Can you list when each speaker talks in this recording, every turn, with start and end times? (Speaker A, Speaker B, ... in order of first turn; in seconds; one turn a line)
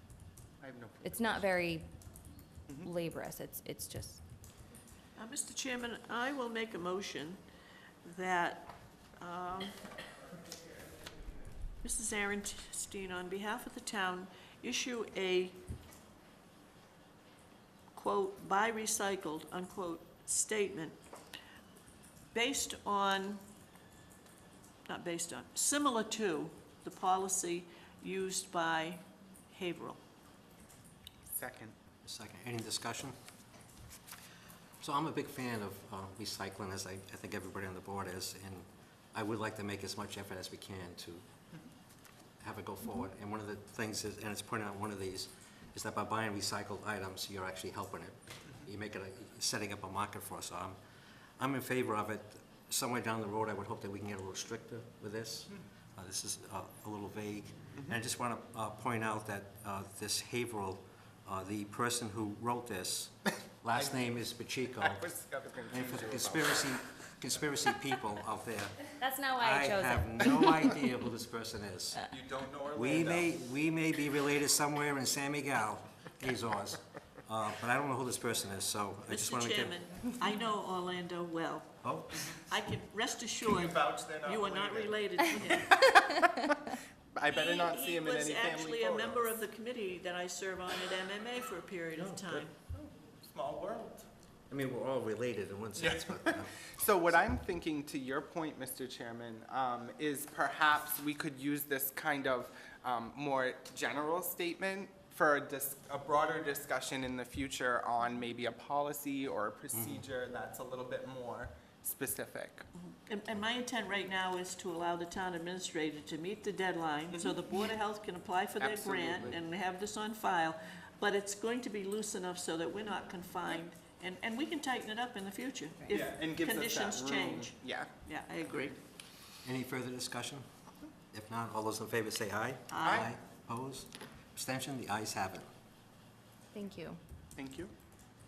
Speaker A: 0.6-1.4
Speaker B: 1.0-1.9
Speaker B: 2.8-4.2
Speaker C: 5.2-7.4
Speaker C: 8.0-9.8
Speaker C: 11.8-15.6
Speaker C: 17.9-21.0
Speaker C: 22.3-23.4
Speaker C: 24.9-30.0
Speaker A: 31.3-31.8
Speaker D: 32.0-33.2
Speaker D: 34.8-41.2
Speaker D: 42.4-50.8
Speaker D: 51.4-65.0
Speaker A: 64.8-66.7
Speaker D: 65.7-68.8
Speaker B: 69.0-70.7
Speaker D: 69.4-72.1
Speaker A: 72.0-73.3
Speaker D: 72.7-79.8
Speaker C: 79.1-81.8
Speaker D: 81.8-82.4
Speaker C: 82.5-85.8
Speaker A: 83.5-89.4
Speaker C: 87.3-92.6
Speaker D: 92.0-92.5
Speaker A: 92.7-94.1
Speaker D: 94.5-96.5
Speaker A: 95.8-112.7
Speaker D: 109.7-110.0
Speaker C: 113.1-128.8
Speaker A: 118.6-119.4
Speaker A: 125.9-127.9
Speaker D: 129.4-130.5
Speaker D: 131.1-135.5
Speaker C: 132.7-133.1
Speaker A: 132.8-133.2
Speaker B: 136.5-137.0
Speaker A: 137.3-137.7